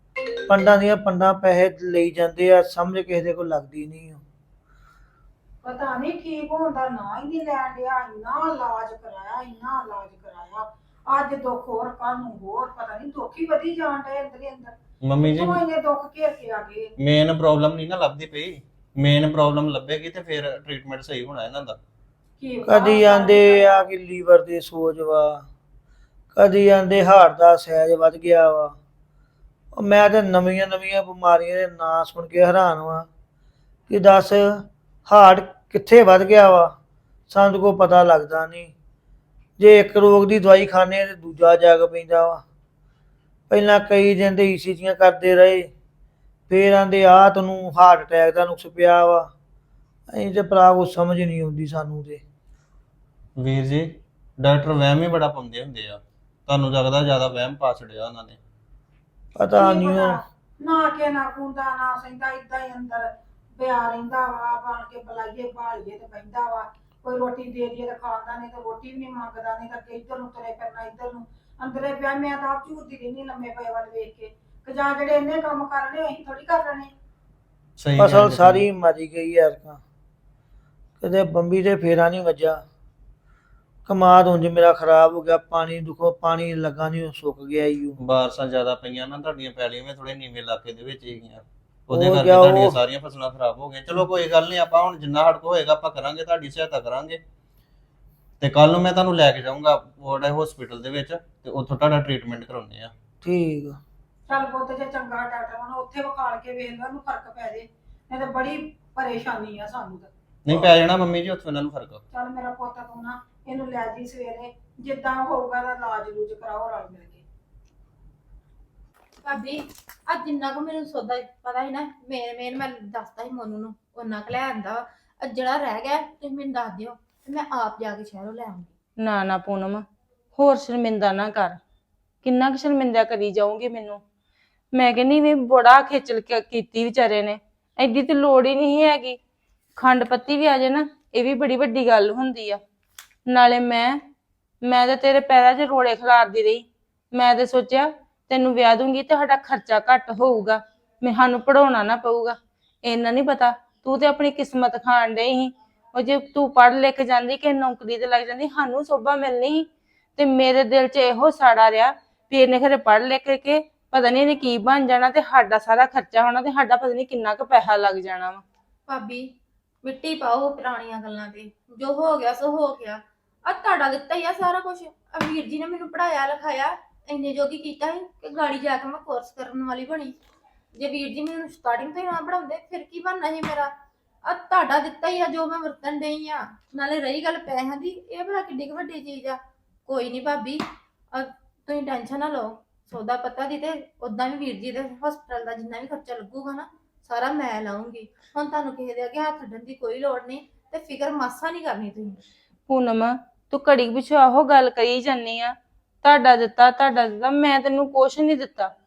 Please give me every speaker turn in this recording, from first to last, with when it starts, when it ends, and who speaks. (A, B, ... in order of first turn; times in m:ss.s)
0:00.4-0:04.2 A
0:05.6-0:16.9 B
0:15.0-0:15.6 C
0:17.0-0:21.8 C
0:22.4-0:23.9 B
0:22.6-0:25.4 A
0:26.3-0:28.7 A
0:29.7-0:33.1 A
0:33.9-0:36.7 A
0:37.3-0:38.7 A
0:39.6-0:42.4 A
0:43.5-0:45.7 A
0:46.5-0:49.3 A
0:50.1-0:52.2 A
0:53.4-0:58.4 C
0:59.4-1:00.2 A
0:59.6-1:16.9 B
1:17.8-1:18.6 C
1:17.9-1:19.8 A
1:21.0-1:22.6 A
1:23.8-1:28.0 A
1:28.0-1:37.2 C
1:31.9-1:32.8 A
1:38.4-1:42.9 C
1:43.2-1:43.8 A
1:44.3-1:50.1 B
1:50.4-1:52.0 C
1:52.1-1:57.2 B
1:59.2-2:08.7 D
2:09.0-2:09.8 E
2:10.4-2:11.6 E
2:12.2-2:14.0 E
2:14.7-2:19.2 E
2:19.8-2:22.6 E
2:23.3-2:24.0 E
2:24.6-2:39.6 E
2:40.2-2:48.4 E
2:48.9-2:49.3 D
2:49.8-3:00.1 D
3:00.7-3:03.7 D
3:04.2-3:22.2 D
3:22.7-3:28.7 E